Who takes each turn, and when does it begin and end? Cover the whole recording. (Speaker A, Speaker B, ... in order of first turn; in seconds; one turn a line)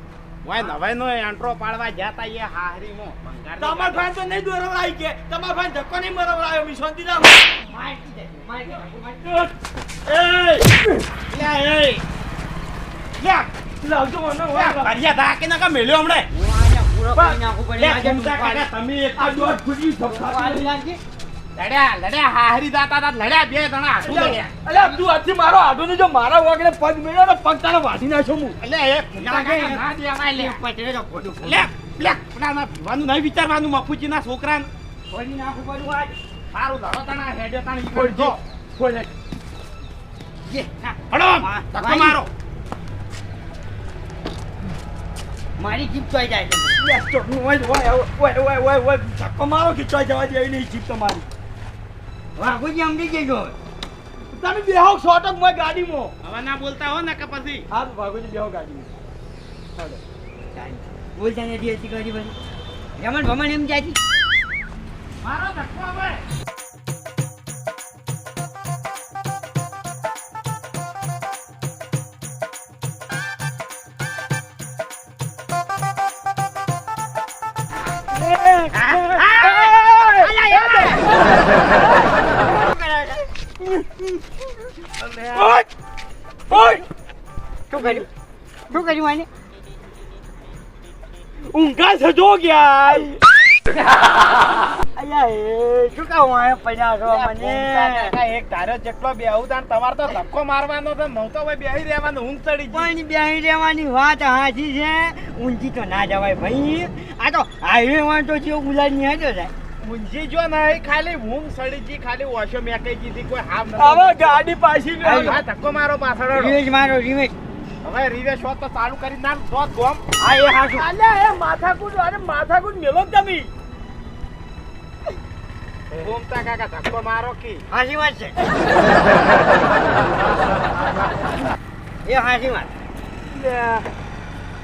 Speaker A: 0.4-4.1
Speaker B: 3.6-7.4
Speaker C: 7.5-9.5
Speaker B: 10.1-11.0
Speaker A: 11.3-12.0
Speaker A: 13.2-13.5
Speaker B: 13.8-14.9
Speaker A: 14.5-16.3
Speaker C: 16.3-18.6
Speaker A: 17.8-19.5
Speaker B: 19.2-20.6
Speaker C: 20.1-21.0
Speaker A: 21.6-24.5
Speaker B: 24.0-28.6
Speaker A: 28.6-30.6
Speaker C: 29.2-31.7
Speaker A: 31.4-34.7
Speaker C: 35.1-36.1
Speaker A: 36.5-38.4
Speaker B: 37.9-39.1
Speaker C: 40.5-42.2
Speaker A: 41.1-42.3
Speaker C: 45.6-46.8
Speaker B: 46.8-51.2
Speaker C: 52.4-53.5
Speaker B: 54.3-56.1
Speaker A: 56.2-57.7
Speaker B: 57.7-58.9
Speaker C: 60.5-62.3
Speaker C: 63.0-64.0
Speaker A: 65.2-66.2
Speaker B: 78.2-80.2
Speaker C: 78.7-83.5
Speaker A: 80.2-81.1
Speaker B: 83.6-84.1
Speaker A: 85.0-85.5
Speaker B: 85.3-85.7
Speaker B: 86.5-86.8
Speaker C: 86.5-86.8
Speaker C: 87.7-88.1
Speaker C: 88.7-89.3
Speaker B: 91.5-93.2
Speaker C: 95.0-98.2
Speaker A: 97.0-102.9
Speaker C: 102.7-109.5
Speaker A: 109.8-114.4
Speaker B: 113.8-115.4
Speaker C: 115.0-115.4
Speaker A: 115.1-116.6
Speaker C: 116.3-117.3
Speaker A: 117.8-120.0
Speaker C: 120.2-120.9
Speaker B: 120.7-123.5
Speaker A: 125.9-127.6
Speaker C: 127.7-128.4
Speaker C: 132.0-132.7
Speaker B: 133.3-133.8